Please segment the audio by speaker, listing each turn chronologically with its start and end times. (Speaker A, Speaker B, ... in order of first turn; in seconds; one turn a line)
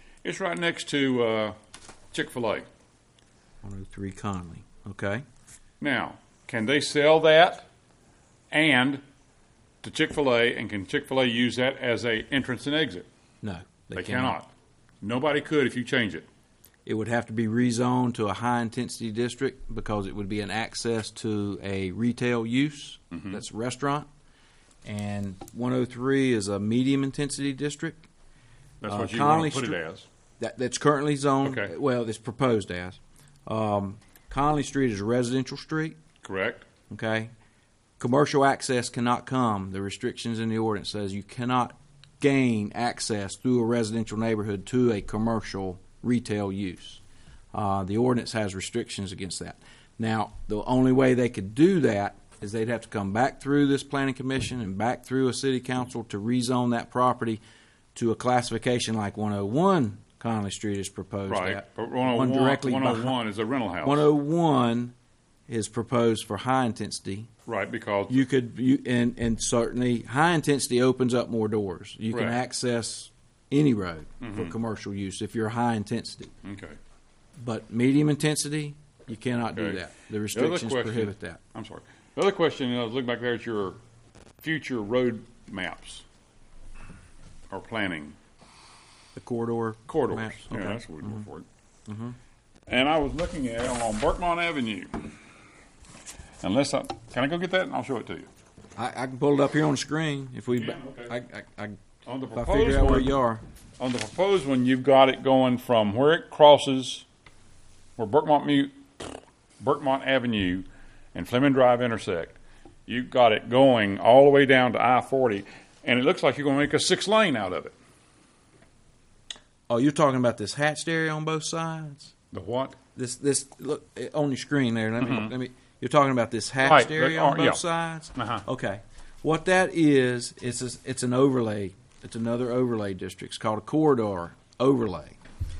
Speaker A: 0.2-1.5
Speaker A: 2.1-2.7
Speaker B: 3.6-5.2
Speaker A: 5.8-7.7
Speaker A: 8.5-9.0
Speaker A: 9.8-13.1
Speaker B: 13.4-14.4
Speaker A: 13.9-14.5
Speaker A: 15.0-16.3
Speaker B: 16.9-24.1
Speaker A: 23.1-23.4
Speaker B: 24.8-28.1
Speaker A: 28.8-30.1
Speaker B: 28.9-29.8
Speaker B: 30.4-36.0
Speaker A: 31.4-31.7
Speaker A: 36.2-36.6
Speaker B: 36.9-37.3
Speaker B: 38.0-47.0
Speaker B: 47.5-57.4
Speaker B: 57.9-63.2
Speaker A: 61.3-64.1
Speaker B: 63.8-64.9
Speaker B: 65.5-67.3
Speaker A: 67.5-68.2
Speaker B: 68.1-76.3
Speaker A: 72.1-72.4
Speaker A: 74.2-74.5
Speaker A: 76.4-76.8
Speaker B: 77.4-81.4
Speaker A: 79.5-83.8
Speaker A: 84.4-86.0
Speaker A: 87.5-88.2
Speaker B: 89.1-91.2
Speaker A: 89.9-91.5
Speaker B: 91.9-92.2
Speaker A: 92.7-95.2
Speaker A: 96.4-98.3
Speaker B: 98.8-101.8
Speaker A: 100.5-101.1
Speaker A: 102.0-103.2
Speaker B: 102.3-103.4
Speaker A: 103.8-107.1
Speaker A: 108.0-108.7
Speaker A: 109.6-117.7
Speaker B: 119.7-122.1
Speaker A: 122.3-122.8
Speaker B: 123.0-135.2
Speaker A: 125.0-125.3
Speaker A: 126.6-127.6
Speaker A: 128.2-128.4